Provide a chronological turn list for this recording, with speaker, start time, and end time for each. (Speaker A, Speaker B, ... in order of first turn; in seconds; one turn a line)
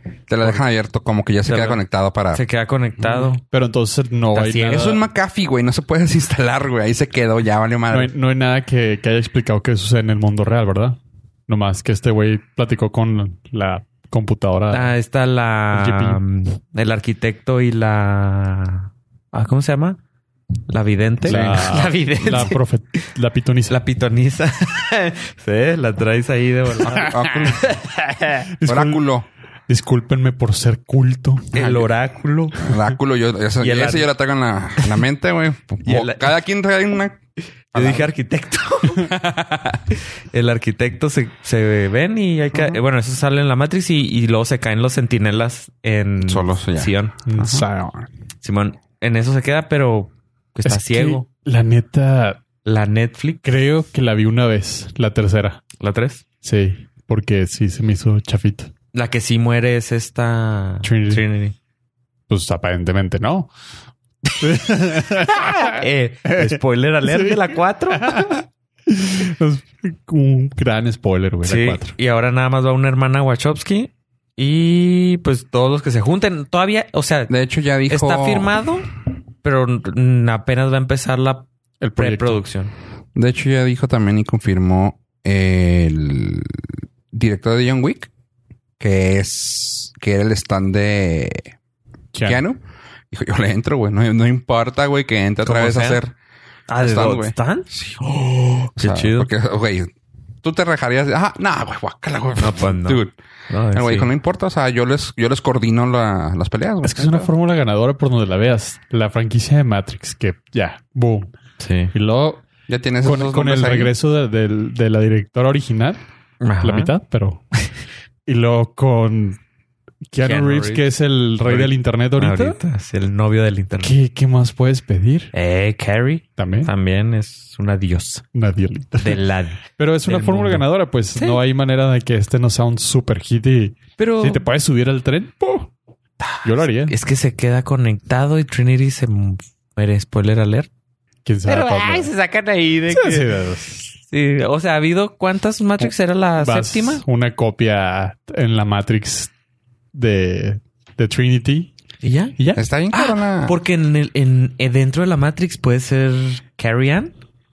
Speaker A: 0.3-2.4
Speaker B: 1.4-1.8
Speaker B: 2.3-3.4
Speaker C: 3.4-5.0
Speaker B: 4.3-4.9
Speaker A: 4.7-8.1
Speaker C: 7.9-14.9
Speaker B: 14.7-20.0
Speaker C: 15.7-16.2
Speaker B: 20.7-22.6
Speaker C: 21.2-23.8
Speaker B: 23.7-28.5
Speaker A: 26.8-27.7
Speaker C: 28.5-29.0
Speaker A: 28.6-29.2
Speaker C: 29.7-31.6
Speaker B: 31.5-32.7
Speaker A: 31.5-31.9
Speaker A: 32.6-37.2
Speaker B: 33.6-34.1
Speaker B: 35.8-36.3
Speaker A: 37.7-38.1
Speaker B: 37.7-39.1
Speaker A: 39.0-39.8
Speaker B: 39.9-47.2
Speaker A: 42.5-42.8
Speaker A: 46.2-47.6
Speaker C: 47.2-48.1
Speaker B: 48.4-51.2
Speaker C: 50.6-52.4
Speaker B: 52.6-53.4
Speaker C: 53.4-55.6
Speaker B: 55.8-56.2
Speaker C: 56.4-58.7
Speaker B: 58.9-61.5
Speaker C: 60.8-61.2
Speaker C: 62.3-63.5
Speaker C: 64.3-72.0
Speaker B: 65.3-68.4
Speaker B: 71.4-77.3
Speaker A: 77.3-78.6
Speaker B: 77.9-78.9
Speaker B: 79.4-82.7
Speaker C: 81.8-82.4
Speaker A: 83.2-88.1
Speaker A: 88.8-91.5
Speaker C: 92.1-92.4
Speaker A: 92.2-92.6
Speaker A: 93.1-96.1
Speaker B: 95.4-96.0
Speaker B: 96.7-99.3
Speaker A: 96.8-98.0
Speaker A: 98.7-99.9
Speaker A: 100.4-103.1
Speaker B: 102.4-104.1
Speaker A: 103.7-107.3
Speaker C: 106.8-111.3
Speaker B: 111.6-111.9
Speaker C: 111.9-112.4
Speaker A: 112.7-113.9
Speaker C: 113.0-116.0
Speaker B: 116.4-116.9
Speaker C: 116.6-117.4
Speaker C: 118.3-119.4
Speaker C: 120.1-122.6
Speaker B: 120.2-120.8
Speaker B: 121.4-123.9
Speaker C: 123.8-125.3
Speaker B: 125.3-128.2
Speaker C: 126.4-126.7
Speaker C: 128.3-129.2
Speaker B: 129.0-130.6
Speaker C: 129.8-135.7
Speaker B: 131.2-131.4
Speaker B: 134.0-134.4
Speaker B: 136.2-140.7
Speaker C: 136.4-136.9
Speaker C: 141.2-142.1
Speaker B: 141.4-147.0
Speaker C: 142.9-143.8
Speaker C: 146.4-149.3
Speaker C: 149.9-151.7
Speaker B: 152.0-152.3
Speaker C: 152.4-152.6
Speaker A: 152.5-153.6
Speaker B: 152.9-157.1